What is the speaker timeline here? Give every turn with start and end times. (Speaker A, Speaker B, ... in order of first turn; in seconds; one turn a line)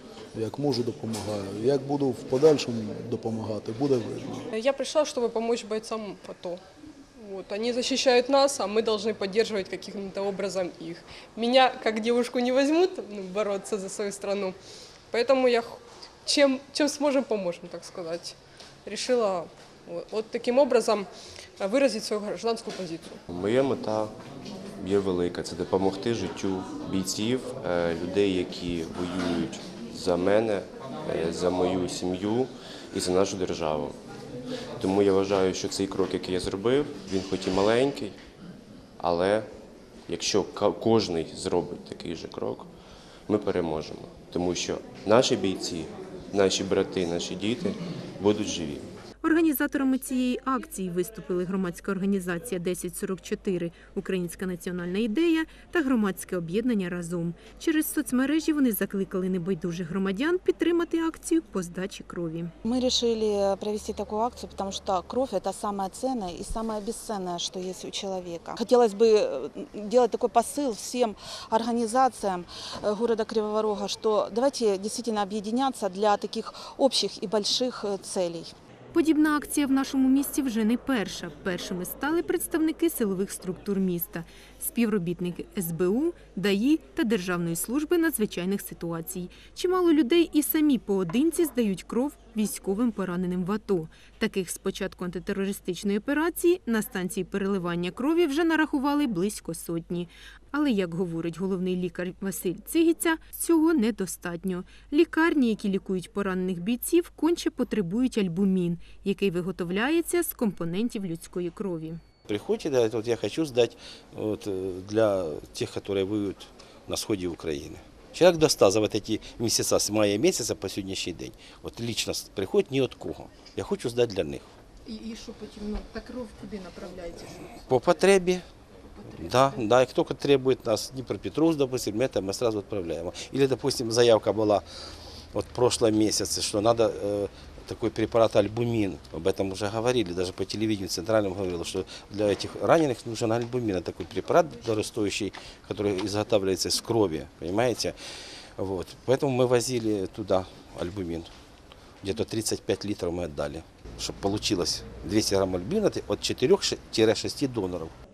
Speaker A: 0.3-4.5
Speaker B: 4.5-6.6
Speaker B: 7.2-14.6
Speaker B: 15.1-18.3
Speaker B: 18.9-23.2
Speaker C: 23.3-24.1
Speaker C: 24.8-34.0
Speaker C: 34.8-38.2
Speaker C: 39.0-39.5
Speaker C: 40.1-42.7
Speaker C: 43.3-48.9
Speaker D: 49.2-62.5
Speaker E: 62.6-78.5
Speaker D: 78.9-112.0
Speaker F: 112.2-124.5
Speaker D: 124.9-127.4
Speaker F: 127.6-128.4
Speaker F: 129.2-134.6
Speaker F: 135.3-147.9
Speaker F: 148.6-151.3
Speaker F: 152.0-157.9